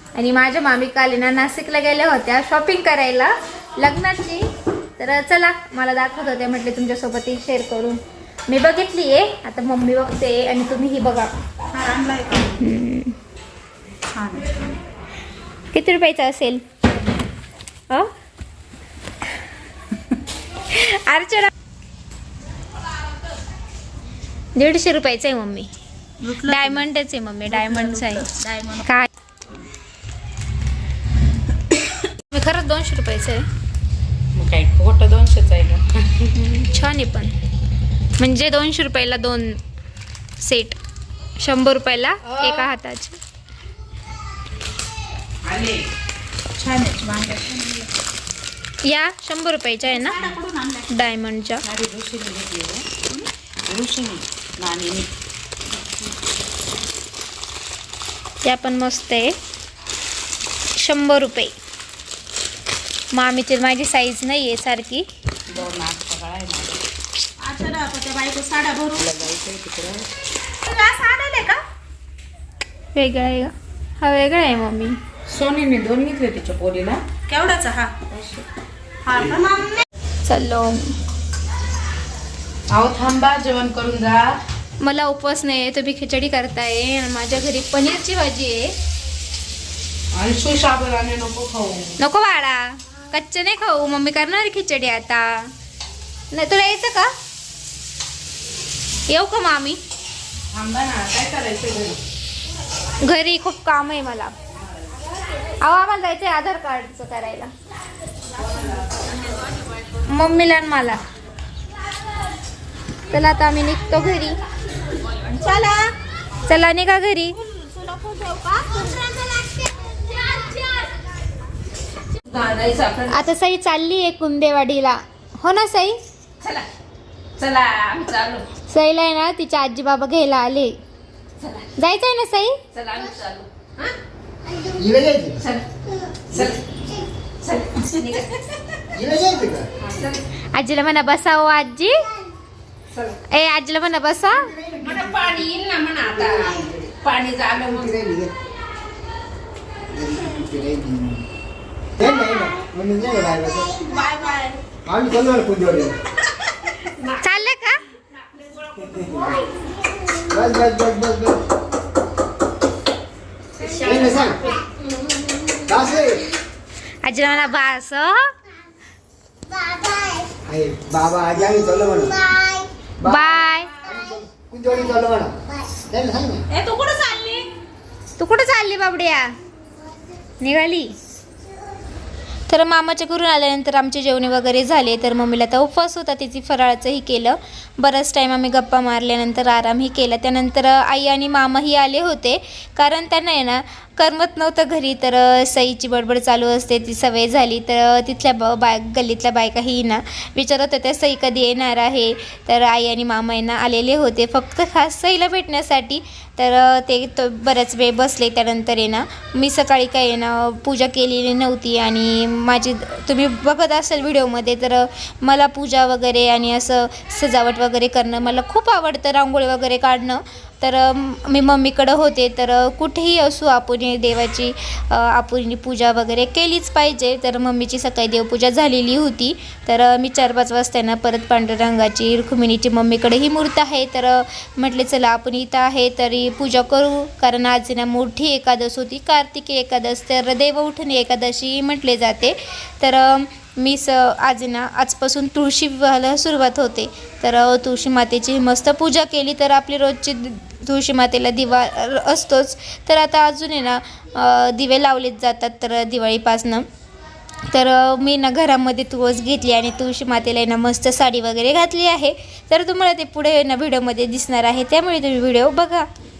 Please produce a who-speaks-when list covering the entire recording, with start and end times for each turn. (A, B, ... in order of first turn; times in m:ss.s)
0:00.1-0:11.3 A
0:11.7-0:12.6 B
0:12.5-0:13.2 A
0:14.2-0:14.4 B
0:15.7-0:16.6 A
0:20.6-0:21.5 A
0:24.5-0:25.7 A
0:26.2-0:29.1 A
0:26.3-0:26.6 B
0:27.6-0:28.8 B
0:32.2-0:33.5 A
0:34.3-0:36.3 B
0:36.3-0:37.3 A
0:38.2-0:39.6 A
0:40.4-0:40.8 A
0:41.4-0:43.2 A
0:45.4-0:45.8 B
0:46.6-0:47.9 B
0:48.8-0:50.3 A
0:50.0-0:50.8 B
0:50.9-0:51.6 A
0:51.6-0:55.1 B
0:58.4-0:59.4 A
1:00.8-1:01.5 A
1:03.1-1:05.1 A
1:05.5-1:06.8 B
1:07.4-1:11.6 B
1:12.9-1:15.0 A
1:15.3-1:18.4 B
1:19.0-1:19.7 B
1:20.2-1:20.9 A
1:22.7-1:24.4 B
1:24.8-1:28.7 A
1:30.1-1:32.0 B
1:32.0-1:35.5 A
1:36.3-1:37.1 A
1:39.1-1:39.8 A
1:40.5-1:42.0 B
1:43.0-1:44.3 A
1:45.6-1:47.5 A
1:50.0-1:51.0 A
1:53.1-1:54.4 A
1:55.2-1:55.9 B
1:56.4-1:57.4 A
1:57.6-2:00.9 B
2:02.2-2:03.2 B
2:03.1-2:06.0 A
2:06.4-2:06.7 B
2:07.4-2:08.5 B
2:08.7-2:10.8 A
2:11.4-2:11.7 B
2:11.7-2:12.6 A
2:12.7-2:13.9 B
2:14.6-2:15.5 C
2:15.4-2:16.6 B
2:17.4-2:18.8 B
2:18.9-2:19.7 C
2:19.9-2:20.2 B
2:20.5-2:22.0 A
2:23.1-2:24.6 A
2:24.6-2:25.0 C
2:24.8-2:28.0 B
2:27.6-2:28.3 C
2:29.9-2:31.2 C
2:32.0-2:33.9 C
2:34.0-2:34.6 B
2:34.8-2:36.0 C
2:37.0-2:37.8 A
2:38.7-2:39.1 B
2:38.9-2:39.2 C
2:40.1-2:41.4 C
2:43.7-2:44.3 B
2:43.7-2:44.6 C
2:45.6-2:46.3 C
2:47.0-2:48.3 A
2:50.4-2:56.4 C
2:53.0-2:53.8 A
2:56.5-2:57.5 B
2:58.2-2:59.4 A
3:00.4-3:01.0 A
3:02.5-4:16.6 A
4:17.5-4:25.9 A